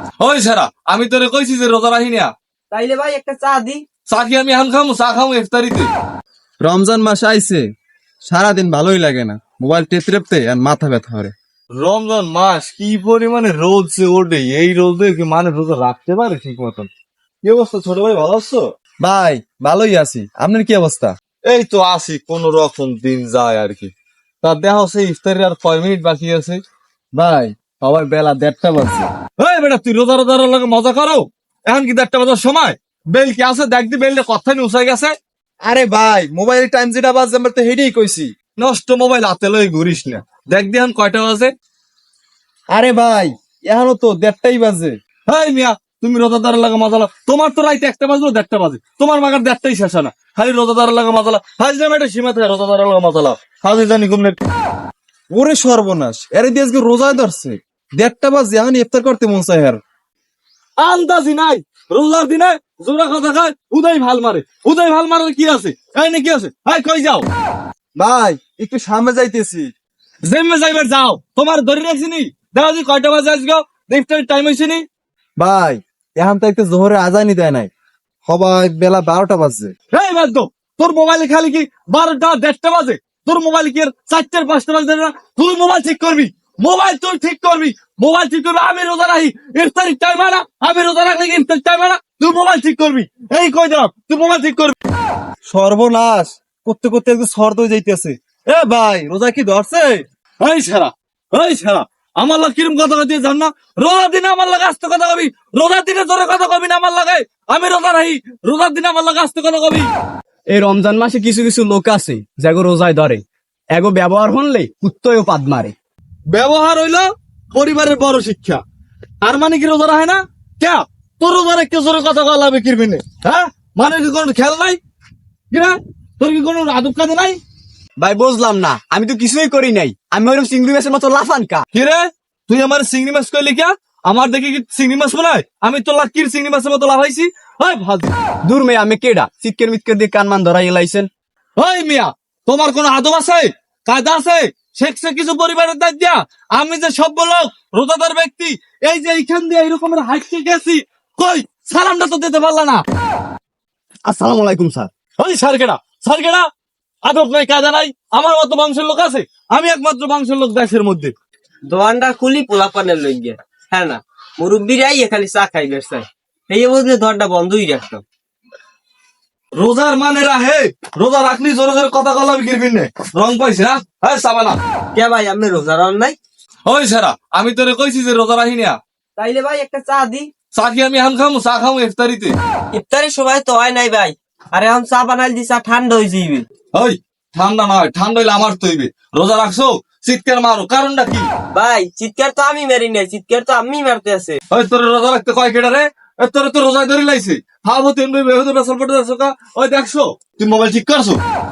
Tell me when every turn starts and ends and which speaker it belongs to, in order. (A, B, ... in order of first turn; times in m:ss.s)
0:00.2-0:02.3 A
0:02.7-0:03.8 B
0:04.1-0:05.9 A
0:06.6-0:07.6 C
0:08.2-0:11.3 C
0:11.8-0:16.9 A
0:17.4-0:18.7 A
0:19.0-0:21.1 C
0:21.4-0:26.6 A
0:27.1-0:29.1 C
0:29.4-0:35.1 A
0:35.6-0:38.3 C
0:38.6-0:41.5 A
0:42.7-0:44.9 C
0:45.3-0:54.4 A
0:55.3-0:59.8 C
1:00.8-1:07.2 A
1:08.0-1:09.7 C
1:10.2-1:14.8 A
1:15.4-1:17.7 C
1:18.2-1:19.7 C
1:19.9-1:34.8 A
1:35.4-1:40.0 C
1:40.4-1:49.9 A
1:50.5-1:55.7 D
1:56.3-1:58.6 A
1:59.2-2:04.8 A
2:05.5-2:07.4 A
2:08.0-2:11.6 D
2:11.7-2:18.1 A
2:18.4-2:21.1 D
2:21.6-2:32.8 A
2:34.0-2:34.9 D
2:35.2-2:36.5 A
2:37.0-2:41.1 A
2:41.7-2:48.0 B
2:49.6-2:54.6 A
2:54.9-2:56.2 B
2:56.6-2:58.8 A
2:59.2-3:00.3 B
3:00.5-3:02.3 A
3:02.7-3:06.4 B
3:06.7-3:11.3 A
3:11.5-3:14.4 B
3:14.5-3:21.2 A